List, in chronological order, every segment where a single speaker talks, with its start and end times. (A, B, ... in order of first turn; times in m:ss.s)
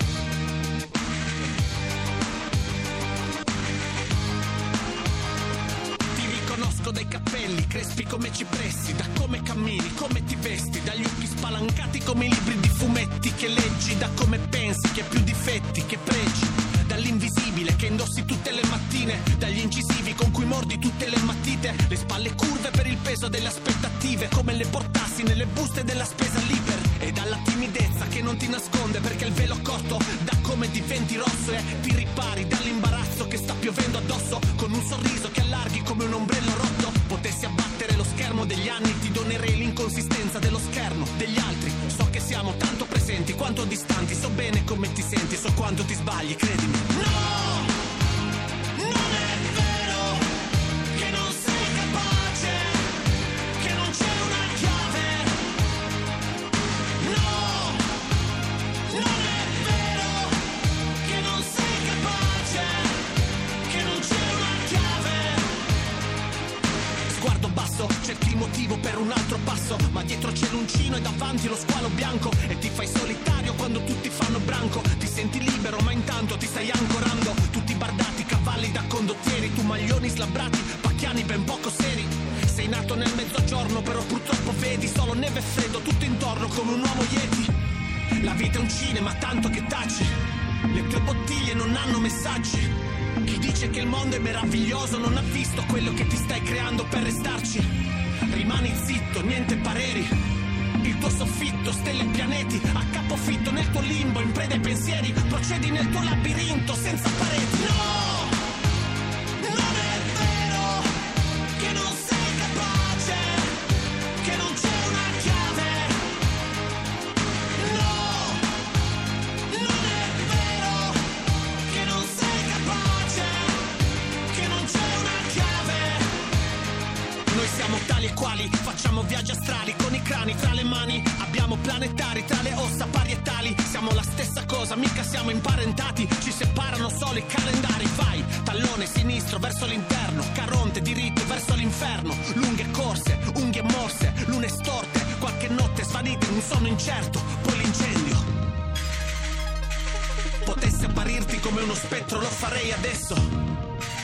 0:06.1-0:47.8 A
0:48.8-0:50.3 A
0:50.9-0:53.0 A
0:53.6-0:55.5 A
0:57.0-0:58.0 A
0:58.9-1:00.5 A
1:01.0-1:03.1 A
1:03.6-1:05.6 A
1:07.1-1:27.6 A
1:28.2-1:30.2 A
1:30.7-1:40.2 A
1:40.8-1:48.4 A
1:49.4-1:51.0 A
1:51.6-1:53.6 A
1:54.2-1:56.2 A
1:57.6-1:58.6 A
1:59.5-2:03.8 A
2:04.3-2:06.2 A
2:07.3-2:28.3 A
2:30.4-2:33.3 A